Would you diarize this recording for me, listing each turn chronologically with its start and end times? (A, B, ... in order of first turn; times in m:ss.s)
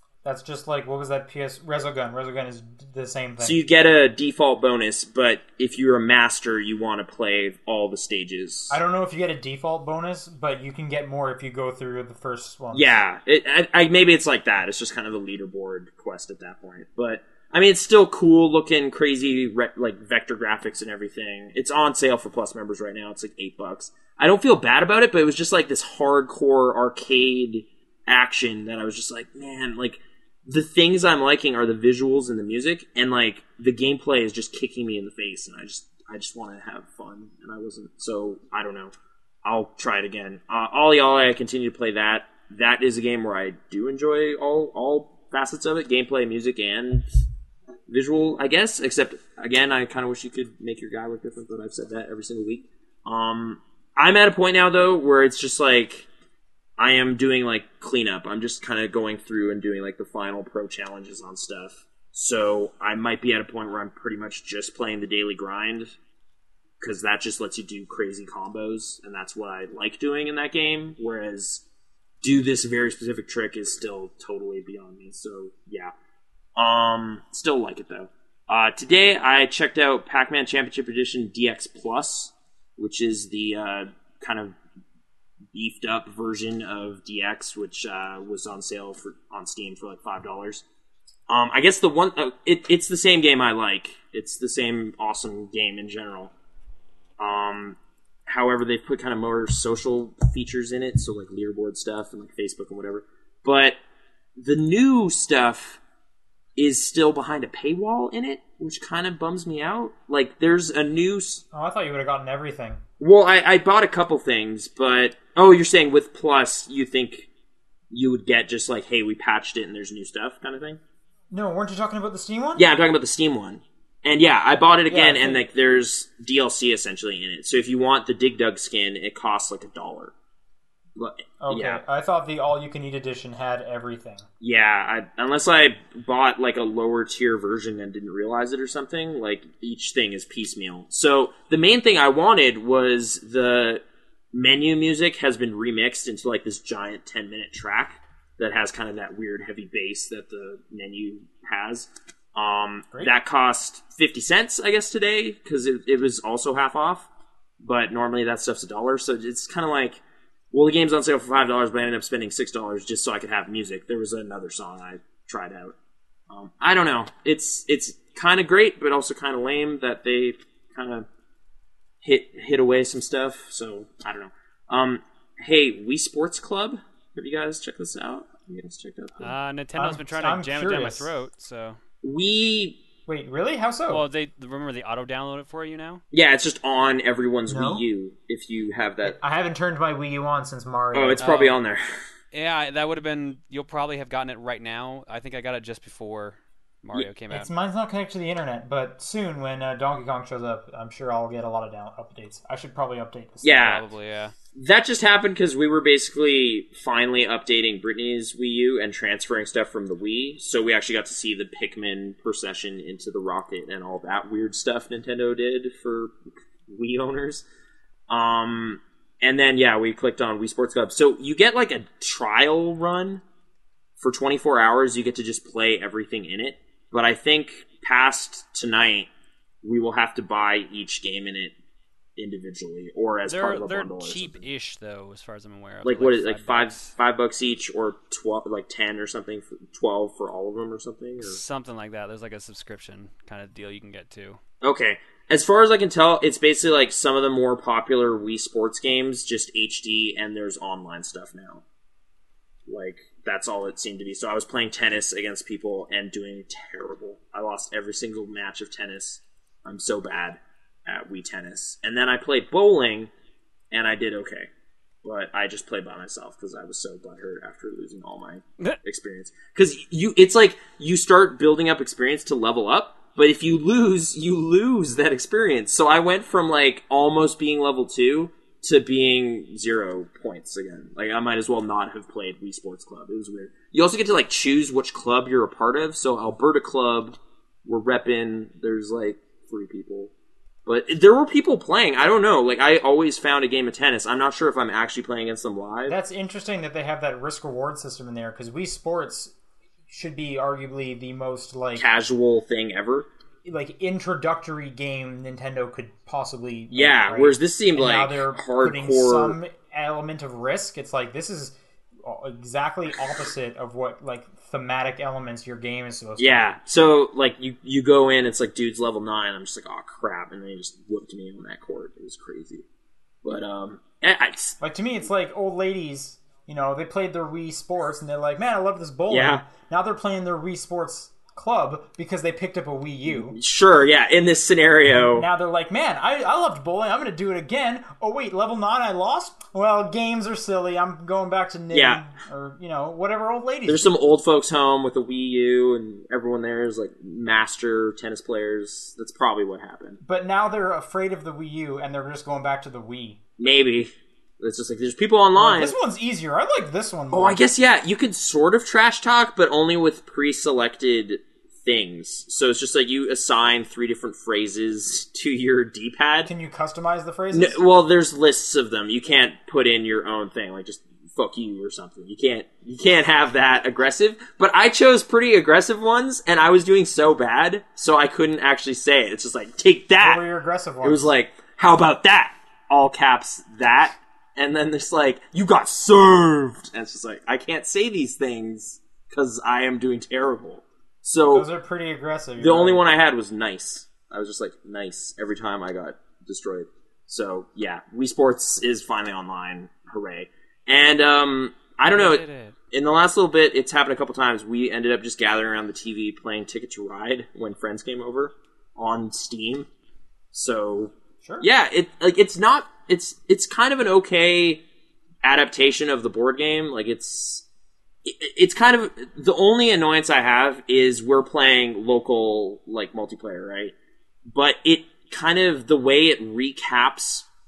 0:00.2-0:03.6 A
0:03.4-0:08.8 B
0:08.7-0:13.0 A
0:12.7-0:38.9 B
0:39.4-0:47.1 B
0:47.9-0:56.1 B
0:56.8-1:05.9 B
1:06.8-1:11.6 B
1:12.2-1:15.9 B
1:16.6-1:24.6 B
1:25.5-1:30.6 B
1:31.3-1:36.3 B
1:37.2-1:43.8 B
1:44.4-1:45.8 B
1:46.6-1:51.4 B
1:51.5-1:52.8 A
1:53.0-1:57.3 B
1:57.9-2:00.8 B
2:01.3-2:02.7 A
2:02.6-2:10.1 B
2:04.9-2:05.4 A
2:11.0-2:11.8 B
2:11.4-2:14.3 A
2:14.4-2:23.8 B
2:24.3-2:37.1 B
2:37.6-2:40.0 B
2:40.5-2:45.8 B
2:46.3-2:51.1 B
2:52.0-2:59.3 B
2:59.2-3:01.8 C
2:59.8-3:01.1 A
3:02.0-3:02.8 B
3:03.1-3:04.0 A
3:03.9-3:06.0 C
3:06.1-3:09.2 B
3:07.5-3:07.8 A
3:09.0-3:11.3 A
3:10.9-3:11.8 B
3:11.2-3:11.6 C
3:12.3-3:17.5 C
3:17.3-3:23.7 A
3:23.4-3:23.9 B
3:23.5-3:24.3 C
3:24.6-3:37.5 B
3:38.1-3:43.2 B
3:44.0-3:49.1 B
3:49.6-3:51.6 B
3:52.2-3:54.4 B
3:53.3-3:56.9 C
3:55.8-4:01.4 B
4:01.2-4:04.4 C
4:04.6-4:11.6 B
4:12.7-4:23.1 B
4:23.7-4:24.5 B
4:25.0-4:50.1 B
4:50.7-4:56.0 B
4:55.9-4:59.3 A
4:59.9-5:01.9 A
5:01.8-5:03.1 B
5:03.4-5:16.5 A
5:06.7-5:09.4 B
5:16.2-5:22.7 B
5:23.2-5:24.6 B
5:24.6-5:33.4 A
5:29.1-5:29.4 B
5:33.1-5:35.3 B
5:34.9-5:43.9 A
5:41.7-5:42.0 B
5:43.7-5:50.0 B
5:50.0-5:53.2 A
5:53.4-5:55.8 B
5:55.4-5:57.4 A
5:57.1-6:06.3 B
6:06.2-6:07.6 A
6:07.3-6:20.2 B
6:20.0-6:21.1 A
6:20.8-6:31.5 B
6:31.3-6:32.8 A
6:32.4-6:49.7 B
6:41.9-6:42.6 C
6:50.3-6:54.6 B
6:55.2-6:57.4 B
6:58.0-7:03.8 B
7:04.3-7:07.3 B